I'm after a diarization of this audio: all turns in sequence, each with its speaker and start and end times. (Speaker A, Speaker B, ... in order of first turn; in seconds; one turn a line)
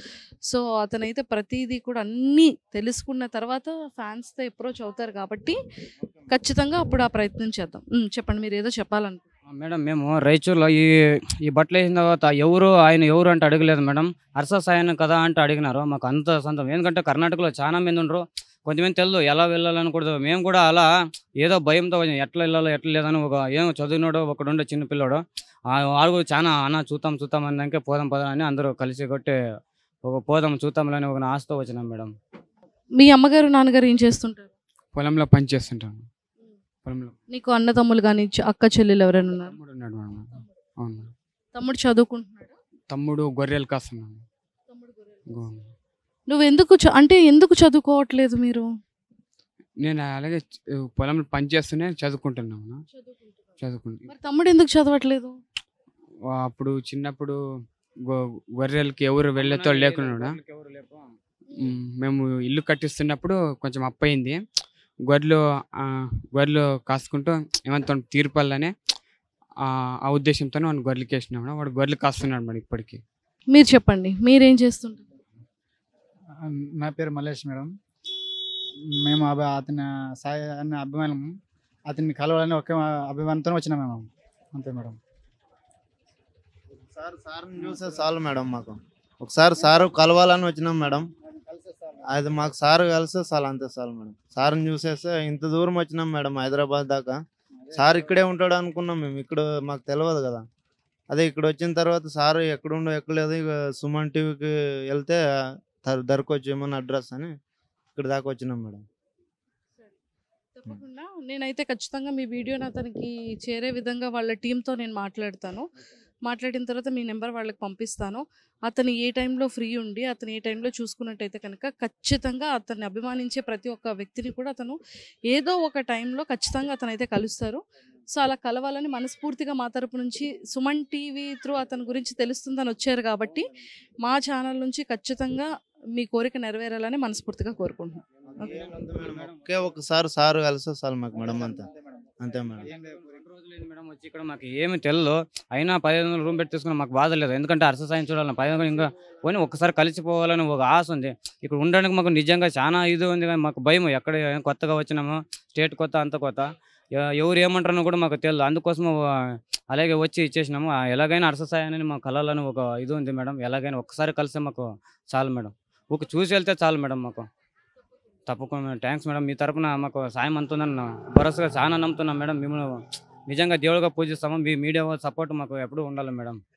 Speaker A: 0.5-5.5
Speaker A: 6.3-9.2
Speaker B: 9.5-10.9
Speaker B: 11.4-20.9
Speaker B: 21.4-29.3
Speaker B: 30.1-32.1
Speaker A: 33.0-34.5
Speaker C: 34.9-36.1
Speaker C: 36.8-37.1
Speaker A: 37.3-39.6
Speaker C: 39.5-41.1
Speaker A: 41.5-42.5
Speaker C: 42.9-44.2
Speaker A: 44.7-45.4
Speaker C: 45.3-45.7
Speaker A: 46.3-48.6
Speaker C: 49.8-52.8
Speaker A: 52.9-53.4
Speaker C: 53.6-54.1
Speaker A: 54.1-55.4
Speaker C: 56.3-57.4
Speaker C: 58.0-60.4
Speaker B: 59.4-61.1
Speaker C: 61.6-64.4
Speaker C: 65.1-68.7
Speaker C: 69.6-73.0
Speaker A: 73.5-75.0
Speaker D: 76.4-77.7
Speaker D: 78.9-85.0
Speaker E: 86.9-91.1
Speaker D: 91.5-92.0
Speaker E: 92.1-97.2
Speaker E: 97.7-100.4
Speaker E: 101.1-105.2
Speaker E: 105.8-107.3
Speaker E: 107.9-108.8
Speaker A: 110.5-115.7
Speaker A: 116.2-133.5
Speaker A: 134.0-138.6
Speaker E: 138.3-141.7
Speaker D: 141.3-141.6
Speaker E: 142.2-142.7
Speaker B: 142.8-167.3
Speaker B: 168.3-176.4